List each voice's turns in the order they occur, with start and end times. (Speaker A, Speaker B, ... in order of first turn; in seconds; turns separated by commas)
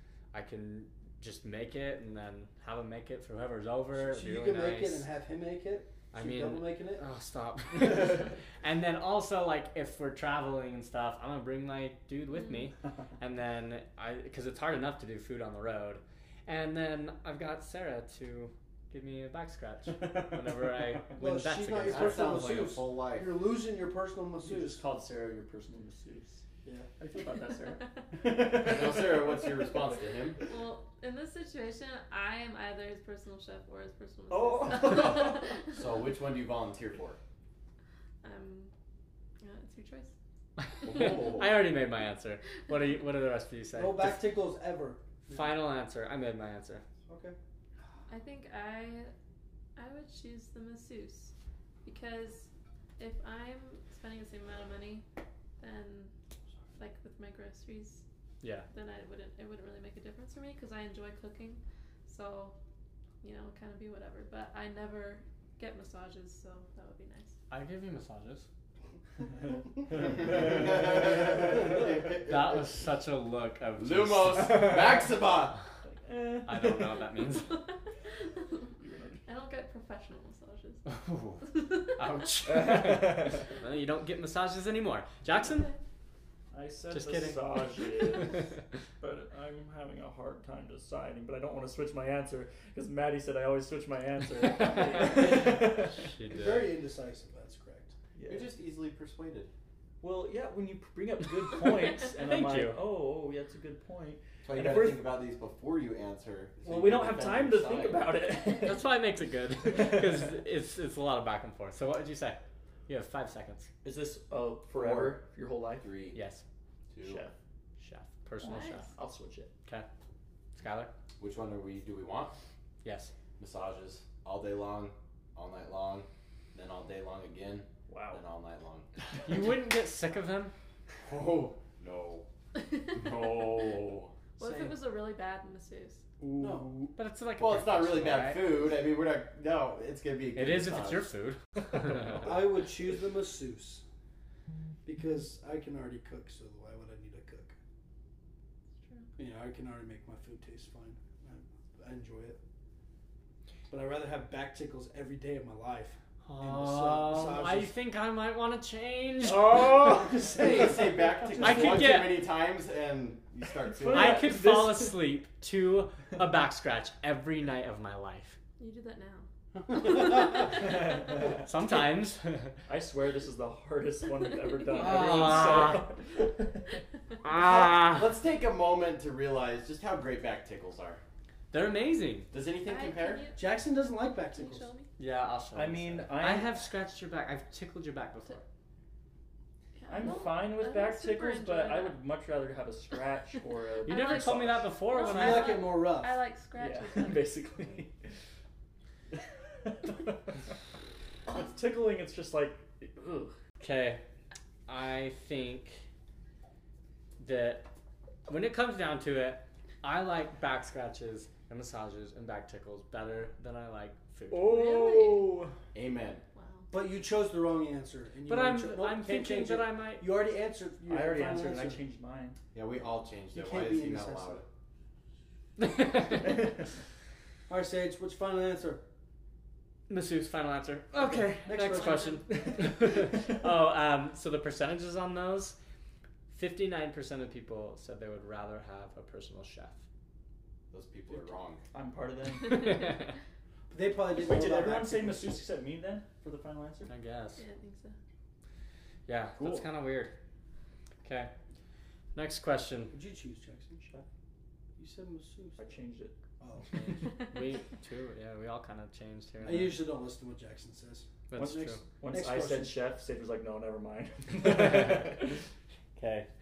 Speaker A: 0.3-5.0, Speaker B: 3.9-7.0, Speaker A: 6.1-22.7, Speaker C: 20.0-20.4, Speaker B: 21.2-24.8, Speaker D: 21.9-23.3, Speaker C: 24.4-26.4, Speaker C: 27.0-29.6, Speaker D: 28.5-30.4, Speaker E: 30.4-35.8, Speaker C: 34.3-35.4, Speaker D: 34.8-37.2, Speaker E: 38.2-38.7, Speaker E: 39.4-40.1, Speaker A: 40.6-44.3, Speaker D: 40.8-41.6, Speaker B: 43.7-45.5, Speaker A: 45.3-46.8, Speaker B: 47.1-47.3, Speaker E: 48.1-49.1, Speaker E: 49.8-51.3, Speaker E: 51.8-55.0, Speaker E: 55.6-56.1, Speaker E: 56.8-58.0, Speaker A: 58.4-58.7, Speaker E: 58.7-62.5, Speaker E: 63.2-67.3, Speaker A: 67.5-68.5, Speaker D: 69.9-72.6, Speaker A: 72.2-74.8, Speaker D: 73.8-75.6, Speaker C: 75.8-76.9, Speaker A: 76.5-77.5, Speaker E: 77.4-78.7, Speaker C: 78.8-79.2, Speaker E: 79.2-80.8, Speaker A: 80.8-85.7, Speaker E: 81.4-82.0, Speaker C: 82.5-83.4, Speaker E: 85.4-85.8, Speaker C: 86.5-96.1, Speaker A: 86.9-87.6, Speaker B: 95.1-95.7, Speaker A: 95.9-96.7, Speaker B: 96.3-97.9, Speaker C: 98.2-98.5, Speaker D: 98.3-99.5, Speaker C: 100.0-105.1, Speaker A: 101.9-102.8, Speaker D: 104.4-108.2, Speaker C: 106.6-108.9, Speaker A: 108.6-113.7, Speaker C: 109.7-110.2, Speaker C: 113.8-115.9, Speaker D: 114.7-115.2, Speaker D: 115.8-116.2, Speaker A: 116.1-116.4, Speaker D: 116.9-117.2, Speaker C: 117.0-117.3, Speaker A: 117.8-118.9, Speaker E: 118.4-118.9, Speaker C: 118.4-119.5, Speaker A: 120.5-120.9, Speaker D: 121.2-122.3, Speaker A: 122.8-123.1, Speaker D: 123.4-128.9, Speaker C: 127.9-128.2, Speaker A: 129.2-130.5, Speaker D: 131.0-132.2, Speaker D: 132.9-134.1, Speaker E: 134.4-136.0, Speaker B: 134.4-134.8, Speaker C: 136.2-136.9, Speaker B: 136.4-136.7, Speaker A: 136.9-138.7, Speaker D: 137.4-141.1, Speaker A: 140.3-142.3, Speaker B: 142.2-143.8, Speaker B: 144.8-147.6, Speaker E: 148.8-149.1, Speaker B: 149.2-152.4, Speaker B: 153.7-157.7, Speaker A: 156.2-159.6, Speaker B: 159.3-161.7, Speaker D: 160.3-164.2, Speaker A: 161.3-162.2, Speaker C: 163.6-165.0, Speaker A: 163.9-168.4, Speaker E: 168.6-169.3, Speaker B: 169.8-170.1, Speaker E: 169.8-171.1, Speaker C: 170.5-171.5, Speaker A: 171.4-172.6, Speaker C: 172.7-176.6, Speaker A: 174.7-175.9, Speaker A: 177.2-178.1, Speaker D: 177.3-181.0, Speaker A: 181.5-182.3, Speaker D: 182.3-183.3, Speaker E: 182.6-183.4, Speaker B: 183.3-184.7, Speaker E: 184.1-184.9, Speaker A: 185.0-188.4, Speaker C: 185.5-186.5, Speaker E: 189.7-192.0, Speaker C: 189.9-194.7, Speaker E: 193.8-197.4, Speaker A: 193.8-195.6, Speaker B: 195.0-196.2, Speaker C: 196.6-197.9, Speaker C: 199.2-200.2, Speaker C: 201.3-203.3, Speaker A: 203.6-204.0, Speaker A: 204.7-205.8, Speaker A: 207.2-207.7, Speaker A: 208.3-214.7, Speaker E: 214.4-215.3, Speaker C: 214.9-215.2, Speaker D: 215.7-216.2, Speaker E: 216.3-216.7, Speaker B: 216.7-221.8, Speaker A: 218.3-220.1, Speaker C: 220.8-222.4, Speaker D: 222.5-224.4, Speaker B: 223.3-224.4, Speaker A: 225.6-226.2, Speaker B: 227.5-228.8, Speaker A: 229.9-235.6, Speaker B: 231.4-232.4, Speaker A: 236.3-239.8, Speaker D: 240.7-241.6, Speaker C: 241.7-242.8, Speaker A: 242.4-243.1, Speaker B: 243.7-245.4, Speaker C: 244.2-246.9, Speaker A: 246.9-247.4, Speaker E: 247.4-247.9, Speaker A: 249.1-250.1, Speaker D: 249.4-249.6, Speaker A: 251.0-251.3, Speaker A: 252.1-252.9, Speaker B: 252.9-253.8, Speaker C: 253.8-254.1, Speaker B: 254.8-255.6, Speaker C: 255.6-256.2, Speaker B: 256.4-256.9, Speaker A: 256.7-259.8, Speaker B: 259.4-262.8, Speaker A: 261.3-261.8, Speaker C: 261.4-265.3, Speaker A: 264.4-265.3, Speaker A: 265.9-266.3